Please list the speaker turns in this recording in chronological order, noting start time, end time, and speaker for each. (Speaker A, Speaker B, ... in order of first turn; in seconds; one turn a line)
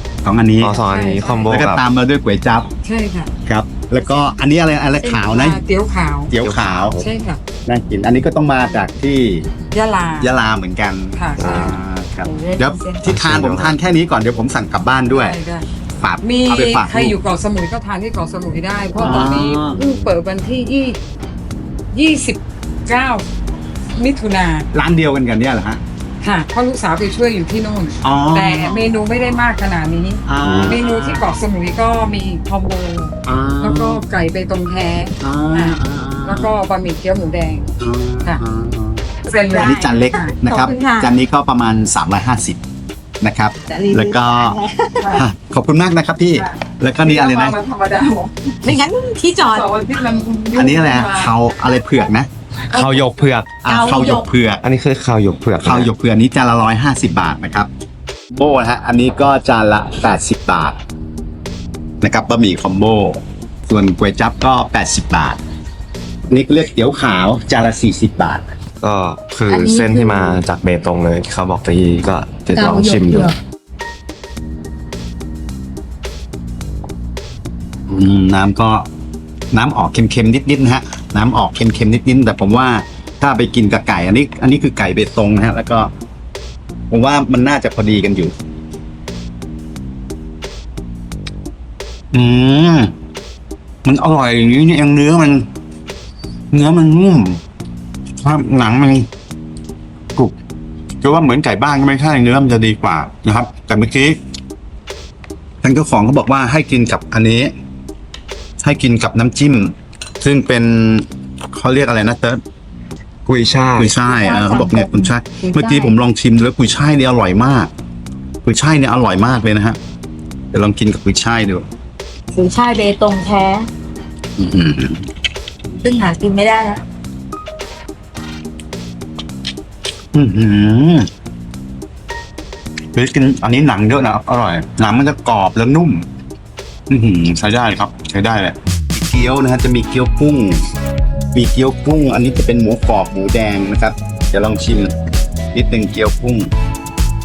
Speaker A: 0.2-0.8
Speaker B: 0.6-1.8
Speaker C: 0.8-1.6
Speaker A: 1.5-2.7
Speaker C: 2.8-3.3
Speaker A: 3.5-5.6
Speaker C: 4.0-4.3
Speaker C: 5.0-6.3
Speaker A: 6.3-7.0
Speaker B: 6.4-7.1
Speaker C: 7.0-7.4
Speaker A: 7.7-9.5
Speaker C: 9.7-10.3
Speaker A: 10.2-15.4
Speaker C: 11.2-11.8
Speaker D: 12.2-13.1
Speaker B: 13.0-13.8
Speaker C: 15.1-15.7
Speaker A: 16.0-17.2
Speaker C: 16.2-21.0
Speaker A: 18.9-19.8
Speaker C: 21.9-23.2
Speaker C: 24.0-24.7
Speaker A: 24.7-25.8
Speaker C: 26.2-37.7
Speaker A: 28.0-28.9
Speaker A: 30.2-31.3
Speaker B: 30.4-30.8
Speaker A: 33.2-34.0
Speaker A: 35.2-36.5
Speaker A: 37.8-42.6
Speaker C: 39.2-40.4
Speaker D: 39.5-41.1
Speaker A: 43.2-44.6
Speaker D: 43.7-45.2
Speaker A: 45.1-47.6
Speaker C: 46.4-48.6
Speaker D: 48.6-49.7
Speaker C: 49.4-51.3
Speaker A: 50.5-52.3
Speaker C: 52.7-53.3
Speaker B: 52.7-53.6
Speaker A: 53.6-54.6
Speaker D: 53.7-54.3
Speaker B: 54.6-55.9
Speaker A: 55.6-57.7
Speaker A: 58.3-60.8
Speaker A: 62.0-65.4
Speaker A: 66.3-68.5
Speaker B: 68.8-73.3
Speaker D: 69.5-70.4
Speaker D: 72.5-73.4
Speaker A: 77.9-78.9
Speaker A: 79.5-85.9
Speaker A: 86.9-88.3
Speaker A: 92.1-92.9
Speaker A: 93.8-95.5
Speaker A: 96.5-97.4
Speaker A: 98.2-99.1
Speaker A: 101.0-104.2
Speaker A: 105.6-107.5
Speaker A: 108.6-112.4
Speaker B: 113.3-114.0
Speaker A: 113.8-117.7
Speaker D: 114.0-115.9
Speaker A: 118.4-119.8
Speaker A: 120.5-121.7
Speaker D: 122.3-123.7
Speaker A: 124.4-125.1
Speaker D: 125.8-126.8
Speaker A: 130.1-131.1
Speaker A: 132.9-136.1
Speaker A: 136.9-140.6
Speaker A: 141.3-144.9
Speaker A: 145.5-146.5